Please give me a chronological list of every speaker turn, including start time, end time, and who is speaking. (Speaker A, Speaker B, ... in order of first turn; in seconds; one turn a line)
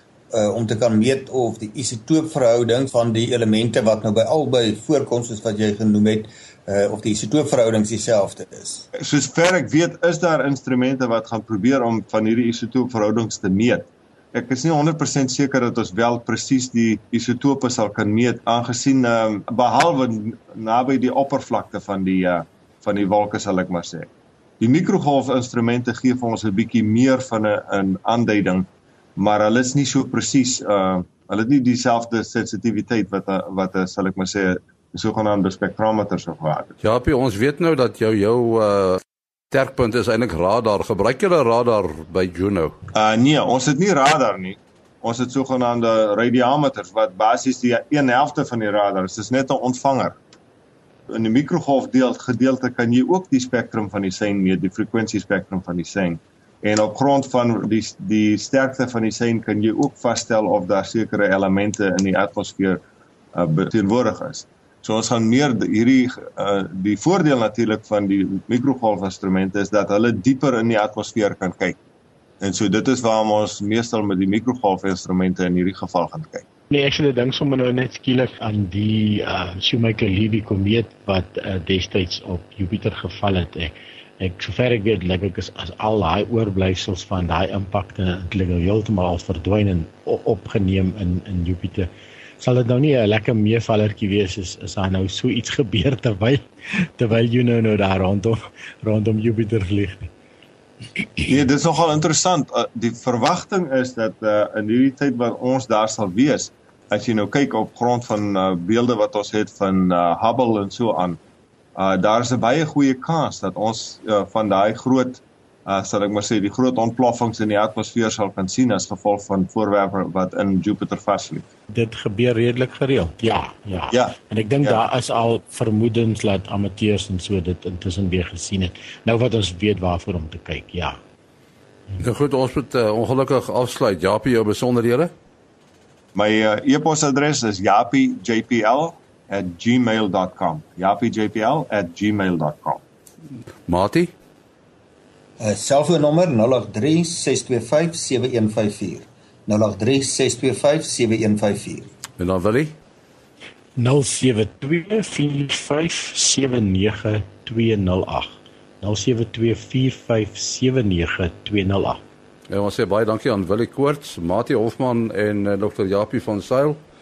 Speaker A: 0.3-8.9
Speaker B: 9.0-36.8
Speaker C: 36.8-42.8
Speaker B: 43.0-50.2
Speaker B: 51.1-62.8
Speaker B: 63.4-71.8
Speaker B: 72.4-76.5
Speaker D: 76.7-100.1
Speaker B: 101.3-111.2
Speaker B: 111.8-121.5
Speaker D: 121.7-131.0
Speaker B: 123.9-124.8
Speaker C: 132.0-135.1
Speaker B: 136.2-142.8
Speaker C: 143.7-144.1
Speaker A: 145.4-151.9
Speaker C: 152.2-152.8
Speaker D: 153.8-162.0
Speaker C: 162.5-166.8